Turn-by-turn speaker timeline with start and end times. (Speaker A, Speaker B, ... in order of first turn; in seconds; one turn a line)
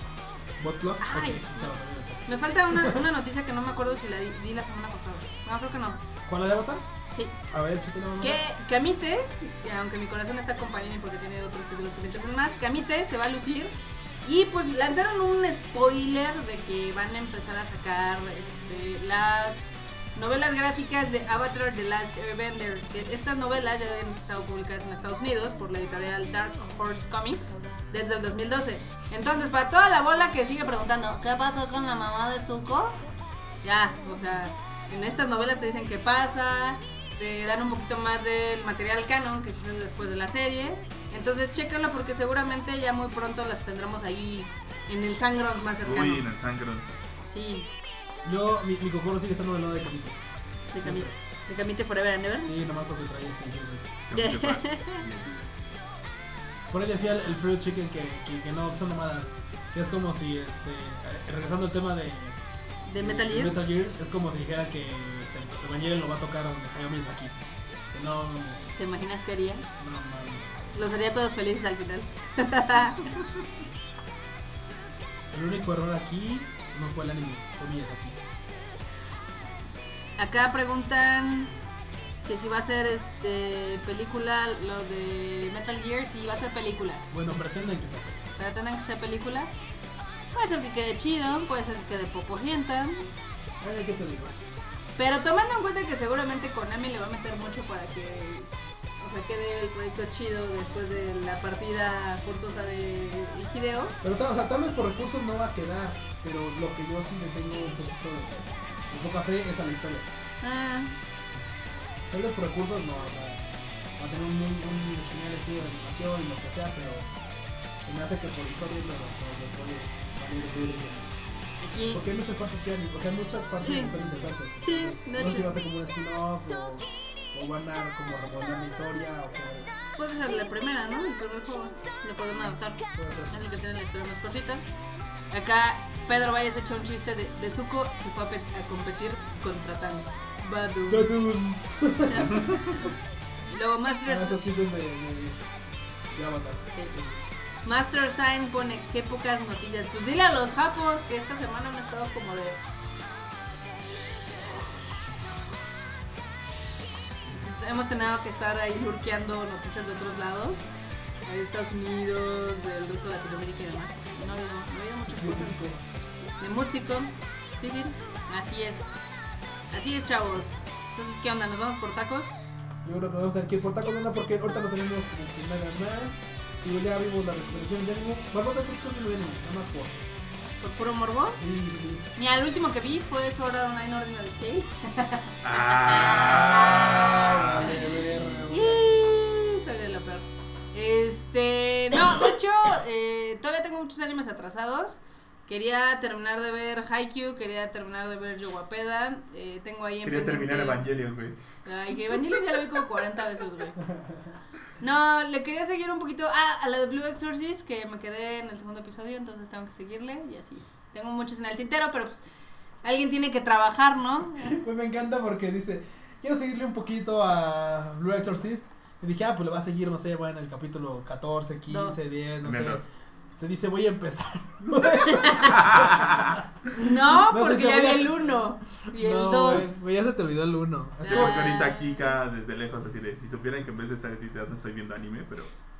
Speaker A: 0.6-3.0
Speaker B: 1.0-6.0
Speaker A: 6.2-6.8
Speaker A: 7.5-8.4
Speaker B: 8.2-13.7
Speaker B: 14.2-33.0
Speaker B: 33.6-46.2
Speaker C: 45.8-47.0
Speaker B: 47.3-47.7
Speaker A: 48.2-50.2
Speaker B: 50.7-52.6
Speaker A: 50.8-51.1
Speaker A: 52.4-54.0
Speaker C: 54.1-55.3
Speaker B: 54.1-55.0
Speaker A: 56.7-62.4
Speaker B: 62.8-63.6
Speaker A: 63.0-67.3
Speaker A: 67.9-68.7
Speaker B: 68.8-69.7
Speaker A: 69.8-70.7
Speaker B: 70.7-73.1
Speaker A: 75.3-78.2
Speaker B: 80.2-81.5
Speaker B: 82.2-87.1
Speaker A: 87.1-88.2
Speaker B: 88.4-89.5
Speaker B: 90.3-93.1
Speaker A: 93.6-94.4
Speaker B: 95.0-104.0
Speaker A: 104.0-110.1
Speaker B: 110.4-110.9
Speaker A: 112.1-113.4
Speaker A: 114.0-117.1
Speaker A: 117.8-121.1
Speaker B: 121.6-122.0
Speaker A: 121.9-129.7
Speaker B: 123.6-123.9
Speaker B: 124.6-125.5
Speaker B: 130.0-134.7
Speaker A: 132.9-133.4
Speaker B: 135.3-141.1
Speaker A: 140.9-142.9
Speaker B: 142.1-142.3
Speaker C: 142.4-142.7
Speaker B: 143.5-144.4
Speaker A: 144.1-145.4
Speaker A: 146.1-147.2
Speaker B: 146.7-147.0
Speaker B: 147.6-152.6
Speaker B: 157.3-160.6
Speaker B: 161.2-165.7
Speaker A: 165.1-165.8
Speaker B: 166.4-168.9
Speaker B: 169.7-172.4
Speaker A: 172.8-180.0
Speaker B: 180.6-181.4
Speaker A: 181.4-182.0
Speaker B: 182.1-200.8
Speaker C: 185.4-188.4
Speaker A: 186.8-188.8
Speaker C: 200.0-201.4
Speaker B: 201.6-203.8
Speaker B: 204.8-212.2
Speaker B: 212.8-214.6
Speaker A: 214.4-222.8
Speaker B: 221.7-222.0
Speaker C: 222.4-222.8
Speaker A: 223.3-228.2
Speaker B: 225.0-225.6
Speaker C: 225.4-226.4
Speaker B: 226.7-229.8
Speaker A: 228.9-231.5
Speaker B: 231.0-231.8
Speaker C: 231.0-235.5